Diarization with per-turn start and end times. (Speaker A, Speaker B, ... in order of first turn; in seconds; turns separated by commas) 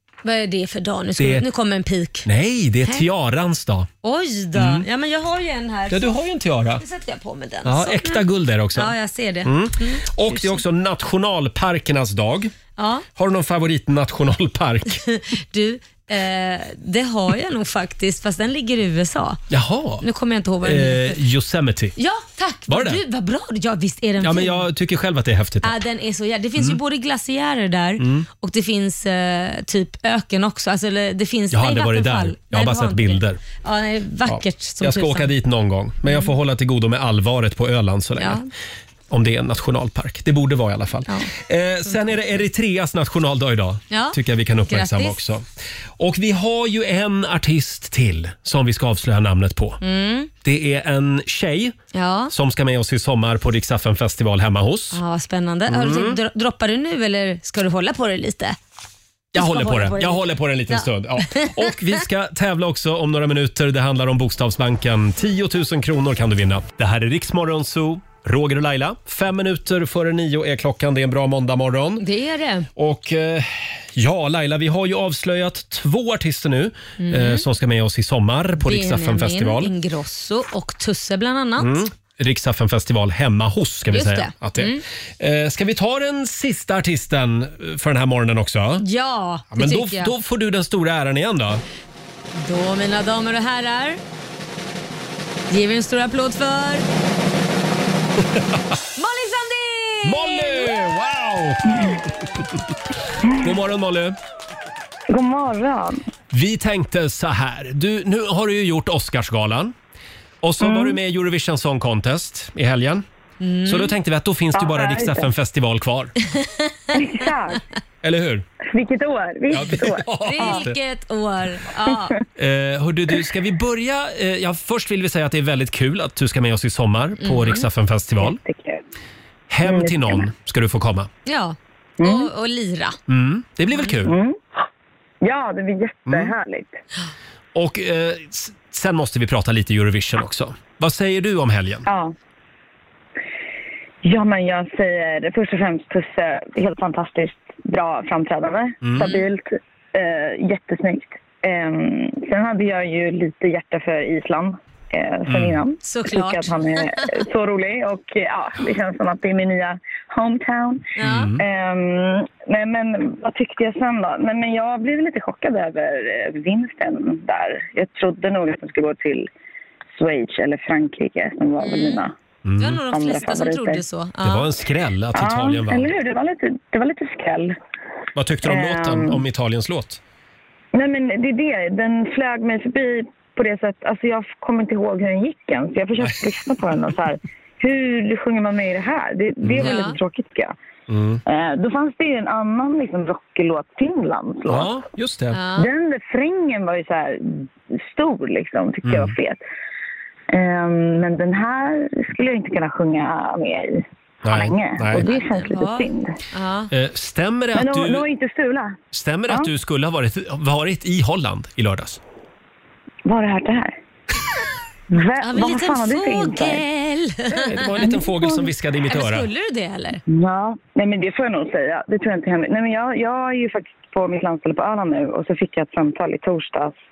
Speaker A: 0.2-2.3, Speaker B: 1.2-1.5, Speaker B: 2.3-3.9, Speaker A: 4.0-6.2, Speaker B: 4.5-4.9, Speaker B: 5.9-6.8, Speaker A: 6.8-8.2, Speaker B: 7.7-12.5, Speaker A: 8.8-10.6, Speaker A: 12.8-13.1, Speaker B: 13.2-15.0, Speaker A: 15.0-19.4, Speaker B: 19.5-20.0, Speaker A: 20.0-21.2, Speaker B: 20.6-21.9, Speaker A: 22.0-24.7, Speaker B: 22.7-23.0, Speaker B: 24.2-25.8, Speaker A: 25.6-35.3, Speaker B: 28.0-28.3, Speaker B: 31.5-33.4, Speaker B: 34.3-38.4, Speaker A: 38.2-38.5, Speaker B: 39.1-45.5, Speaker A: 43.9-44.2, Speaker A: 44.7-45.2, Speaker B: 46.0-49.8, Speaker A: 49.8-50.3, Speaker B: 50.4-51.8, Speaker A: 51.9-52.3, Speaker B: 52.3-55.0, Speaker A: 54.9-58.6, Speaker B: 55.7-56.2, Speaker B: 59.3-72.0, Speaker A: 59.4-61.5, Speaker A: 72.0-72.7, Speaker B: 72.8-79.7, Speaker A: 77.0-77.5, Speaker A: 78.6-81.8, Speaker B: 81.6-88.8, Speaker A: 83.9-84.8, Speaker A: 88.8-90.1, Speaker B: 89.5-91.6, Speaker A: 92.3-94.0, Speaker A: 95.5-96.8, Speaker A: 99.0-100.7, Speaker B: 100.0-102.1, Speaker B: 103.3-104.2, Speaker C: 105.1-106.0, Speaker B: 106.3-109.7, Speaker B: 110.4-113.0, Speaker C: 110.6-111.0, Speaker A: 113.4-114.0, Speaker B: 113.7-116.1, Speaker C: 114.5-115.3, Speaker A: 116.4-116.7, Speaker C: 116.9-117.6, Speaker B: 118.0-118.5, Speaker C: 118.7-120.6, Speaker B: 119.5-120.8, Speaker A: 120.2-122.1, Speaker B: 122.4-128.4, Speaker A: 127.2-127.7, Speaker C: 128.2-128.8, Speaker B: 129.5-131.1, Speaker C: 129.6-130.2, Speaker A: 131.3-133.0, Speaker C: 132.0-132.3, Speaker B: 133.1-134.1, Speaker C: 134.0-134.4, Speaker C: 135.2-136.7, Speaker B: 136.1-136.3, Speaker B: 137.6-141.9, Speaker C: 141.9-142.1, Speaker C: 144.0-160.8, Speaker B: 148.8-149.2, Speaker B: 155.3-155.6, Speaker A: 155.8-157.1, Speaker A: 161.0-161.3, Speaker B: 161.0-161.4, Speaker C: 161.4-169.3, Speaker C: 169.9-172.1, Speaker A: 171.6-172.1, Speaker B: 172.4-172.8, Speaker A: 172.6-174.5, Speaker C: 172.9-173.8, Speaker B: 174.2-175.9, Speaker C: 175.2-177.6, Speaker B: 178.1-180.0, Speaker C: 178.4-179.2, Speaker C: 180.8-190.5, Speaker B: 186.0-186.2, Speaker B: 189.4-189.8, Speaker A: 189.6-190.0, Speaker B: 190.9-191.2, Speaker C: 191.3-194.7, Speaker B: 194.5-195.4, Speaker A: 195.3-195.7, Speaker C: 195.6-199.4, Speaker B: 198.8-199.2, Speaker C: 200.3-206.2, Speaker B: 204.2-205.1, Speaker A: 204.9-206.7, Speaker B: 206.7-208.1, Speaker C: 207.5-208.8, Speaker B: 208.9-212.0, Speaker C: 213.1-213.8, Speaker C: 214.9-216.7, Speaker A: 215.2-217.9, Speaker B: 217.3-219.3, Speaker C: 217.7-218.5, Speaker A: 218.9-220.0, Speaker C: 220.1-226.8